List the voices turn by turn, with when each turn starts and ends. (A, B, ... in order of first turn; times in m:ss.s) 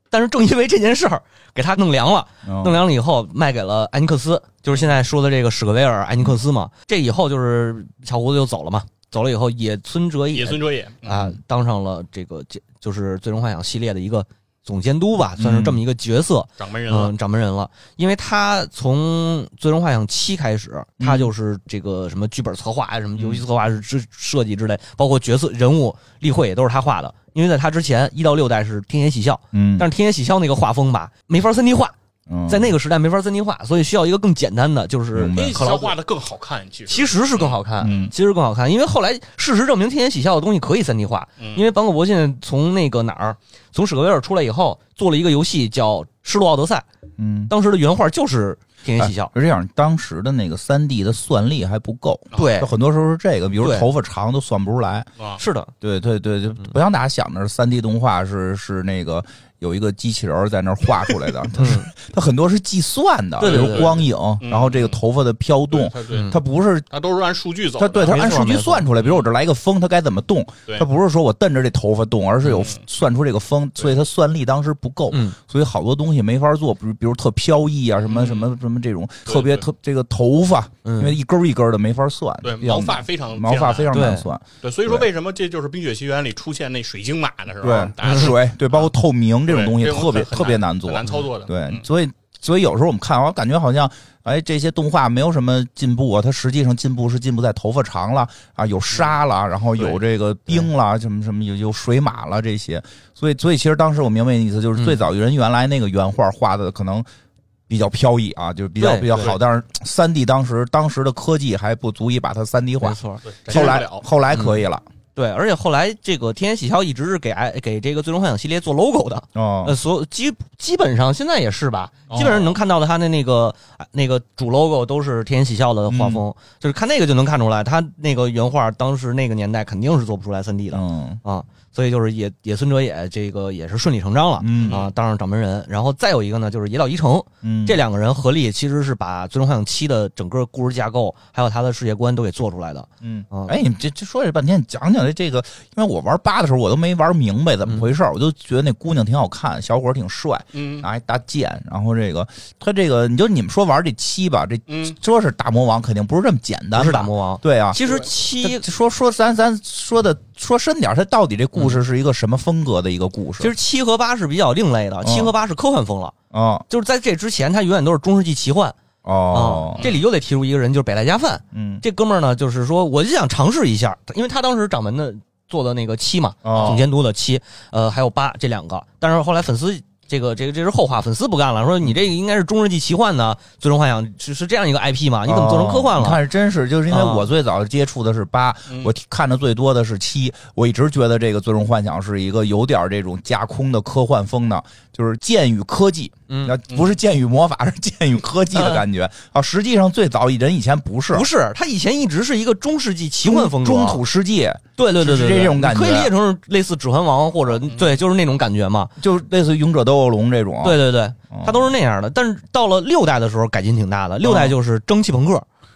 0:00.1-0:31.9 A
0:02.4-0:02.8 B
0:10.3-0:11.3 C
0:15.4-0:15.8 B
0:16.6-0:17.1 C
0:21.0-0:21.3 B
0:29.5-0:29.9 B
0:32.3-0:32.7 B
0:32.5-0:35.9 A
0:35.1-0:35.6 B
0:35.3-0:38.1 C
0:36.9-0:46.8 A
0:37.8-0:38.1 B
0:41.4-0:41.7 C
0:47.2-0:47.5 B
0:47.5-0:49.3 A
0:49.0-0:55.1 B
0:52.3-0:52.6 C
0:52.4-0:52.7 A
0:53.6-0:53.9 A
0:55.4-0:55.7 A
0:55.8-1:06.9 B
1:01.6-1:01.9 A
1:03.4-1:03.9 A
1:03.4-1:05.0 C
1:05.7-1:06.4 C
1:06.1-1:06.4 A
1:06.9-1:08.4 C
1:07.8-1:25.1 B
1:08.0-1:08.9 A
1:09.0-1:09.3 C
1:12.5-1:12.8 C
1:15.1-1:15.4 A
1:18.0-1:18.6 C
1:19.3-1:19.6 C
1:20.8-1:21.1 A
1:22.4-1:23.9 C
1:23.9-1:24.2 A
1:24.6-1:28.9 C
1:27.6-1:47.0 B
1:28.0-1:28.3 A
1:29.5-1:31.8 C
1:44.8-1:45.0 A
1:47.7-1:54.8 B
1:48.8-1:49.3 A
1:52.8-1:53.2 A
1:53.2-1:54.0 C
1:54.3-1:54.6 A
1:55.1-2:23.5 A
1:59.3-1:59.7 B
2:02.1-2:02.6 C
2:05.9-2:06.2 B
2:10.7-2:11.2 B
2:14.4-2:14.8 B
2:14.6-2:14.9 C
2:17.4-2:17.8 B
2:23.0-2:43.5 B
2:30.5-2:30.9 C
2:34.7-2:35.0 C
2:36.7-2:38.6 A
2:43.4-2:46.1 A
2:45.0-2:45.3 B
2:46.3-2:46.6 B
2:46.7-2:48.8 A
2:49.0-2:49.9 B
2:49.3-3:06.2 A
2:51.5-2:51.8 B
2:56.4-2:56.8 B
2:56.5-2:56.8 C
3:05.2-3:21.3 B
3:06.9-3:07.3 A
3:16.3-3:16.5 A
3:16.7-3:17.0 C
3:18.5-3:18.8 A
3:21.1-3:24.0 A
3:23.2-3:26.1 B
3:24.8-3:28.9 A
3:27.7-3:28.0 C
3:29.0-3:31.7 B
3:30.6-3:35.4 A
3:34.2-3:34.5 B